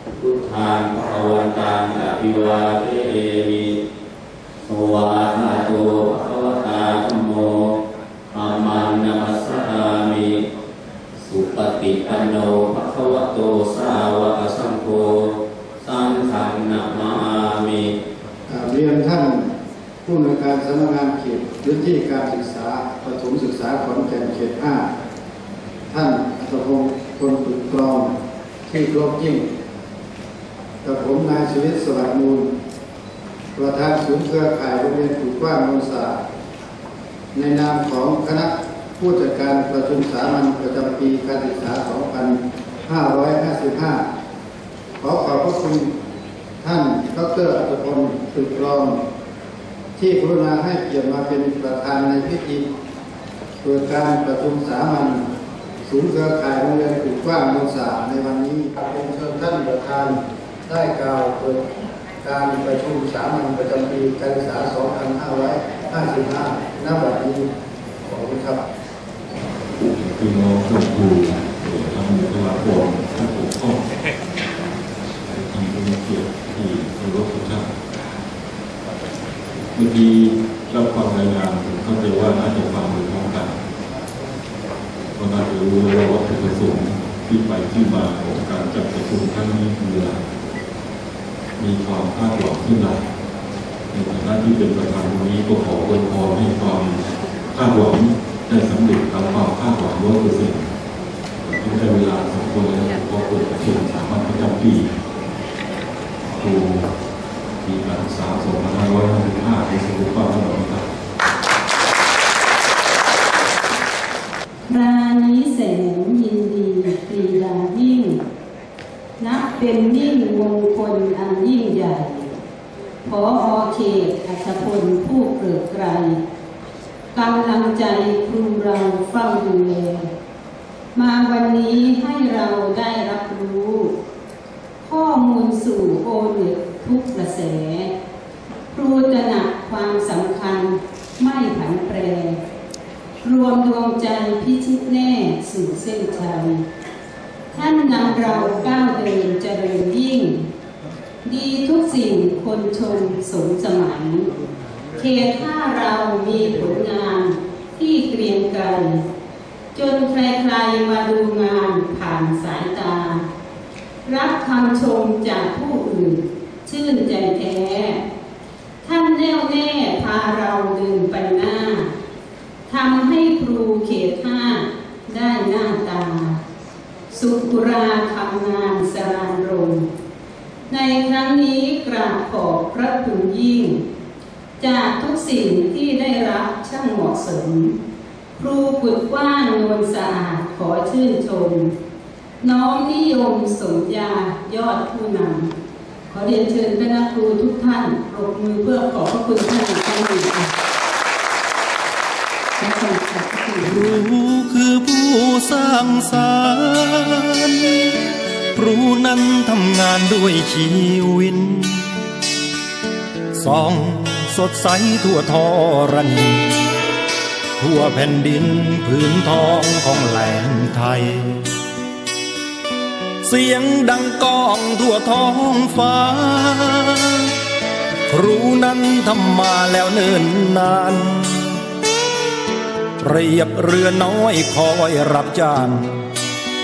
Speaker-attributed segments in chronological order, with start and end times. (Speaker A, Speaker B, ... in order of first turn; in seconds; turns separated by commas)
Speaker A: 0.2-3.7, Speaker A: 4.7-7.7, Speaker A: 8.3-10.4, Speaker A: 11.2-15.3, Speaker A: 15.8-17.9, Speaker B: 18.5-19.5, Speaker B: 20.0-24.9, Speaker B: 25.9-28.1, Speaker B: 28.7-29.4, Speaker B: 30.8-32.5, Speaker B: 33.5-36.2, Speaker B: 37.3-44.0, Speaker B: 45.0-45.9, Speaker B: 46.6-49.0, Speaker B: 50.0-52.7, Speaker B: 53.6-55.3, Speaker B: 55.9-61.6, Speaker B: 62.2-67.5, Speaker B: 68.0-68.6, Speaker C: 69.9-73.8, Speaker C: 75.3-77.7, Speaker C: 79.8-83.6, Speaker C: 85.2-90.2, Speaker C: 91.6-93.1, Speaker C: 93.9-100.7, Speaker C: 101.4-104.9, Speaker C: 106.3-106.9, Speaker C: 107.6-110.9, Speaker D: 114.7-118.2, Speaker D: 119.2-122.4, Speaker D: 123.0-126.2, Speaker D: 127.2-130.1, Speaker D: 130.9-133.9, Speaker D: 134.8-137.9, Speaker D: 138.7-142.4, Speaker D: 143.2-146.6, Speaker D: 147.5-150.5, Speaker D: 151.2-154.3, Speaker D: 155.0-159.0, Speaker D: 159.7-163.3, Speaker D: 164.1-168.0, Speaker D: 168.8-171.9, Speaker D: 172.7-176.4, Speaker D: 177.1-179.9, Speaker D: 180.7-183.8, Speaker D: 184.6-187.8, Speaker D: 188.4-191.8, Speaker D: 192.4-195.5, Speaker D: 196.1-200.5, Speaker D: 202.6-203.9, Speaker E: 203.8-207.9, Speaker C: 205.4-206.1, Speaker C: 208.6-209.2, Speaker E: 208.6-211.9, Speaker E: 213.4-216.7, Speaker E: 217.6-221.4, Speaker C: 217.6-218.3, Speaker E: 223.2-227.3, Speaker E: 228.1-231.6, Speaker E: 233.0-236.1